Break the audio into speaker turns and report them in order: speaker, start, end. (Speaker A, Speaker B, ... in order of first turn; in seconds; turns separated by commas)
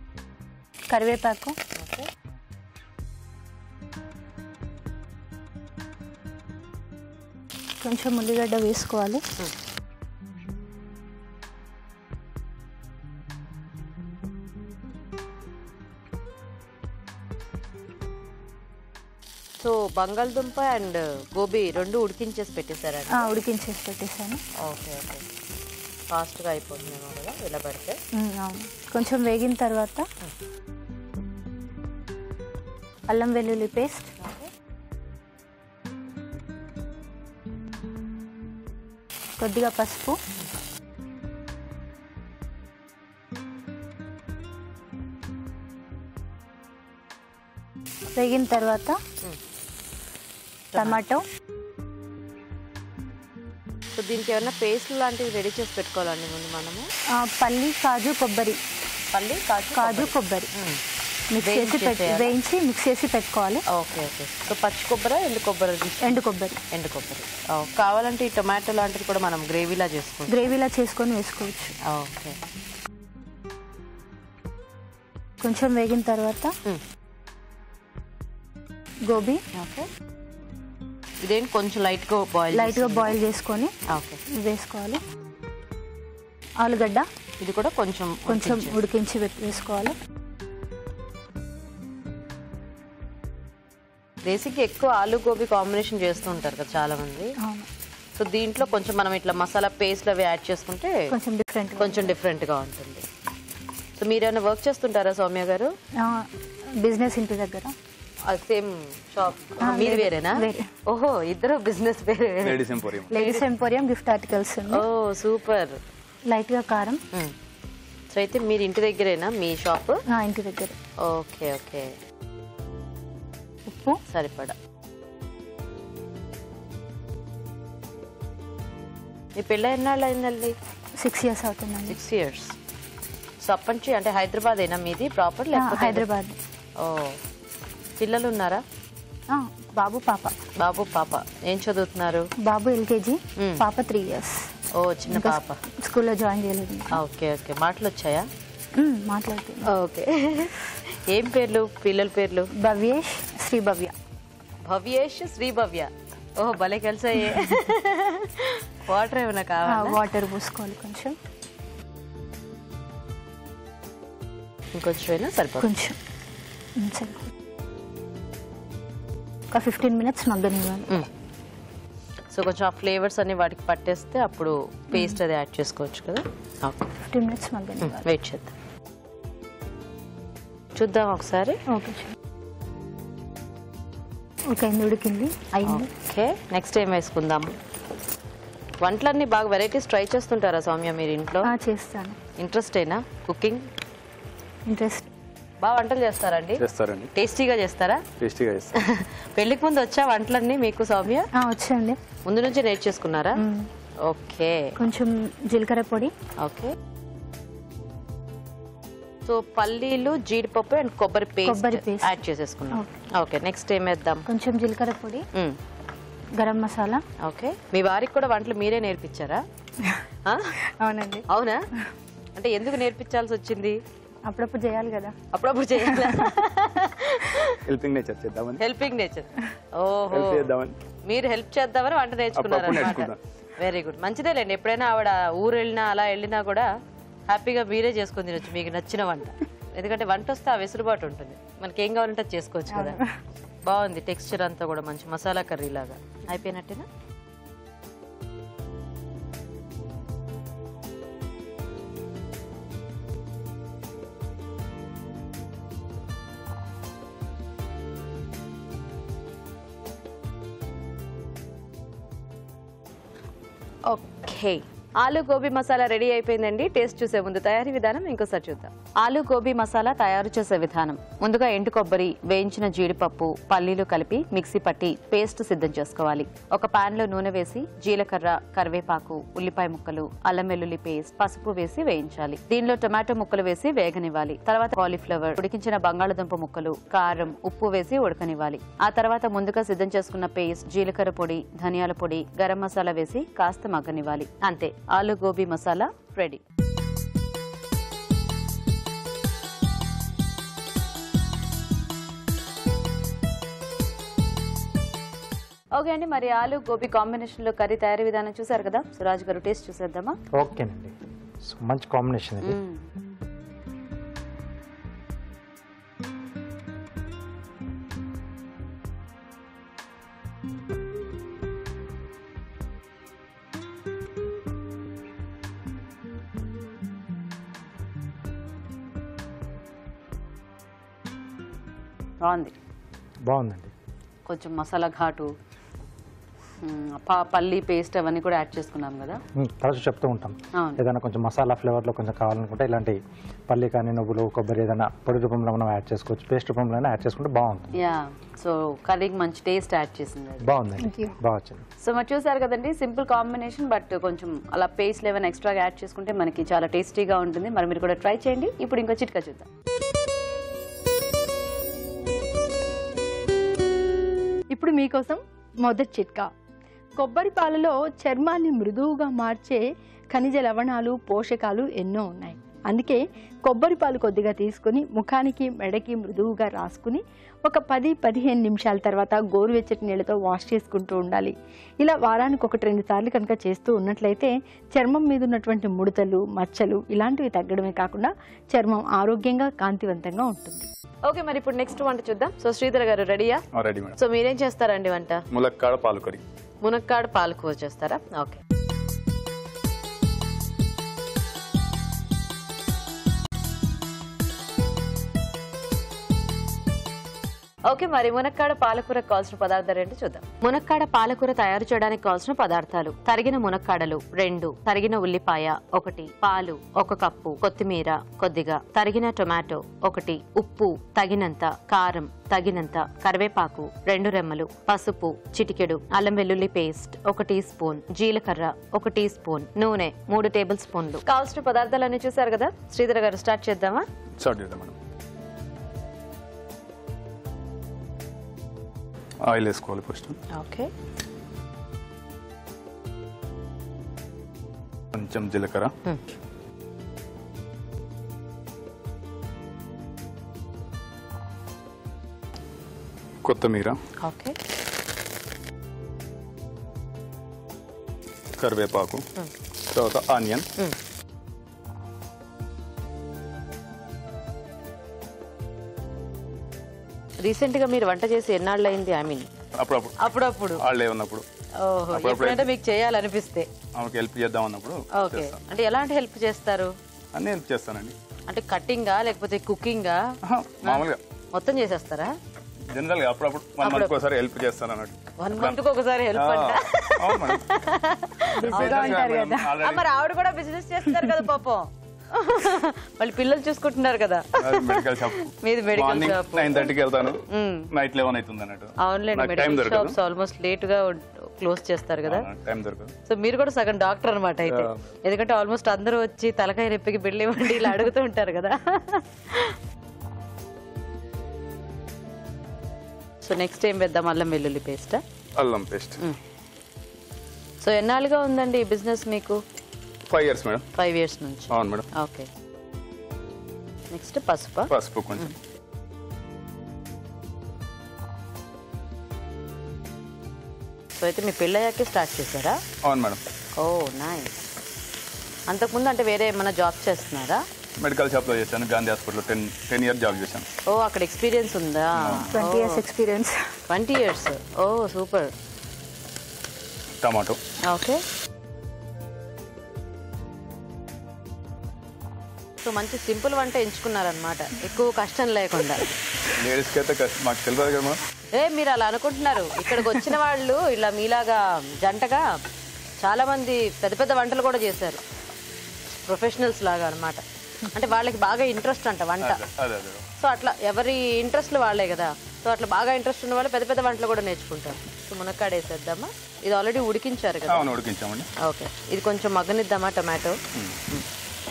Speaker A: 0.9-1.6, Speaker B: 1.7-2.1, Speaker A: 7.8-9.2, Speaker B: 19.6-23.3, Speaker A: 23.1-24.4, Speaker B: 24.6-25.2, Speaker B: 26.1-28.0, Speaker A: 28.1-30.0, Speaker A: 33.1-34.1, Speaker B: 34.2-34.5, Speaker A: 39.4-40.2, Speaker A: 48.1-49.0, Speaker B: 50.7-51.0, Speaker A: 50.7-51.2, Speaker B: 54.0-56.9, Speaker A: 57.1-58.6, Speaker B: 59.1-60.8, Speaker A: 59.7-60.5, Speaker A: 61.3-63.6, Speaker B: 61.4-62.3, Speaker B: 63.7-66.2, Speaker A: 66.0-66.6, Speaker B: 66.7-70.5, Speaker A: 70.3-71.7, Speaker B: 71.8-72.3, Speaker A: 75.4-76.5, Speaker A: 79.1-79.4, Speaker B: 79.5-79.9, Speaker B: 81.2-83.2, Speaker A: 82.5-83.7, Speaker B: 83.9-84.2, Speaker A: 84.3-85.0, Speaker A: 86.6-87.0, Speaker B: 87.4-88.8, Speaker A: 88.3-89.9, Speaker B: 94.2-97.3, Speaker A: 97.4-97.7, Speaker B: 98.2-101.0, Speaker A: 101.1-102.1, Speaker B: 101.8-103.0, Speaker B: 104.0-105.7, Speaker A: 106.0-106.2, Speaker A: 106.8-107.7, Speaker B: 108.2-113.4, Speaker A: 109.6-110.7, Speaker C: 112.4-113.1, Speaker A: 113.1-114.8, Speaker B: 114.7-115.8, Speaker A: 116.2-117.0, Speaker B: 118.1-120.0, Speaker A: 120.1-120.8, Speaker B: 121.0-122.0, Speaker A: 123.7-124.0, Speaker B: 124.1-124.5, Speaker B: 129.4-130.5, Speaker A: 131.0-132.0, Speaker B: 131.9-132.6, Speaker B: 133.4-136.1, Speaker A: 135.5-136.3, Speaker B: 136.8-137.2, Speaker B: 138.0-138.6, Speaker A: 139.3-140.3, Speaker B: 140.6-142.3, Speaker A: 142.4-144.5, Speaker B: 144.8-145.6, Speaker A: 145.1-147.0, Speaker B: 146.9-148.3, Speaker A: 148.8-149.7, Speaker B: 149.6-152.5, Speaker A: 152.6-153.9, Speaker B: 154.6-160.0, Speaker A: 159.7-161.1, Speaker B: 164.7-165.7, Speaker A: 165.6-166.0, Speaker A: 166.8-167.3, Speaker A: 169.5-170.9, Speaker B: 172.3-176.9, Speaker A: 177.0-178.1, Speaker B: 177.8-178.5, Speaker B: 180.8-181.6, Speaker A: 181.7-182.1, Speaker A: 184.5-185.9, Speaker B: 185.7-187.5, Speaker B: 188.8-191.5, Speaker A: 191.4-192.2, Speaker B: 192.4-193.7, Speaker A: 194.7-195.1, Speaker B: 195.6-196.6, Speaker C: 196.6-197.1, Speaker B: 197.1-198.0, Speaker C: 198.2-198.8, Speaker B: 198.8-201.3, Speaker A: 201.3-202.0, Speaker B: 202.2-203.4, Speaker A: 203.4-203.7, Speaker B: 204.1-204.7, Speaker A: 204.8-206.1, Speaker B: 206.4-206.7, Speaker B: 209.2-214.2, Speaker A: 211.4-212.2, Speaker A: 214.3-215.2, Speaker A: 216.4-217.0, Speaker B: 217.2-219.4, Speaker B: 220.2-220.6, Speaker A: 220.8-221.2, Speaker B: 221.3-221.6, Speaker B: 222.3-223.8, Speaker A: 224.2-225.1, Speaker B: 225.3-227.6, Speaker A: 225.8-226.3, Speaker C: 227.6-228.6, Speaker B: 228.6-230.5, Speaker C: 230.1-230.7, Speaker B: 231.0-236.7, Speaker C: 232.3-233.2, Speaker B: 237.3-243.0, Speaker A: 242.7-243.1, Speaker B: 243.6-246.9, Speaker B: 263.9-296.4, Speaker B: 305.7-310.2, Speaker D: 310.3-312.6, Speaker B: 312.4-312.9, Speaker B: 332.2-332.5, Speaker D: 333.3-333.7, Speaker B: 334.3-335.3, Speaker B: 336.6-339.2, Speaker D: 339.4-343.0, Speaker B: 340.5-340.8, Speaker D: 343.5-347.7, Speaker B: 347.7-350.4, Speaker D: 350.4-351.6, Speaker A: 350.8-351.1, Speaker B: 351.8-359.5, Speaker E: 364.5-366.3, Speaker E: 367.0-390.7, Speaker B: 391.1-393.4, Speaker C: 393.5-394.0, Speaker B: 394.0-395.2, Speaker C: 395.3-396.2, Speaker B: 396.6-398.4, Speaker B: 407.7-433.9, Speaker C: 434.2-434.8, Speaker C: 439.2-440.2, Speaker B: 440.3-440.7, Speaker C: 444.9-445.7, Speaker C: 453.2-453.8, Speaker B: 454.0-454.4, Speaker C: 458.4-459.0, Speaker C: 459.7-460.5, Speaker B: 467.2-469.3, Speaker C: 469.6-470.0, Speaker B: 470.0-470.6, Speaker C: 470.6-471.2, Speaker B: 471.6-473.5, Speaker C: 471.9-472.5, Speaker C: 473.8-475.4, Speaker B: 474.9-476.7, Speaker C: 477.1-477.9, Speaker B: 478.3-480.0, Speaker C: 480.2-481.0, Speaker B: 480.6-482.1, Speaker C: 482.7-485.6, Speaker B: 483.6-483.9, Speaker B: 485.2-496.7, Speaker C: 486.1-487.4, Speaker C: 488.3-489.8, Speaker A: 488.5-489.4, Speaker C: 494.4-499.9, Speaker B: 497.3-497.7, Speaker B: 498.8-502.3, Speaker C: 502.1-502.9, Speaker B: 503.1-509.5, Speaker C: 504.5-504.8, Speaker B: 513.2-515.0, Speaker C: 515.4-516.0, Speaker B: 517.6-519.4, Speaker C: 520.1-520.6, Speaker B: 520.7-522.3, Speaker C: 521.5-521.9, Speaker B: 523.9-525.3, Speaker C: 524.7-525.3, Speaker B: 531.0-532.6, Speaker C: 532.8-533.2, Speaker B: 533.6-534.3, Speaker B: 535.5-537.4, Speaker C: 537.8-540.5, Speaker B: 540.7-542.8, Speaker C: 542.0-542.3, Speaker A: 542.3-543.5, Speaker B: 543.7-545.3, Speaker C: 547.0-547.4, Speaker B: 547.6-548.0, Speaker B: 552.6-555.9, Speaker C: 556.4-558.0, Speaker B: 558.3-562.3, Speaker B: 563.0-565.0, Speaker B: 566.0-569.4, Speaker C: 569.2-570.0, Speaker B: 570.2-577.7, Speaker C: 577.5-578.3, Speaker B: 578.4-580.4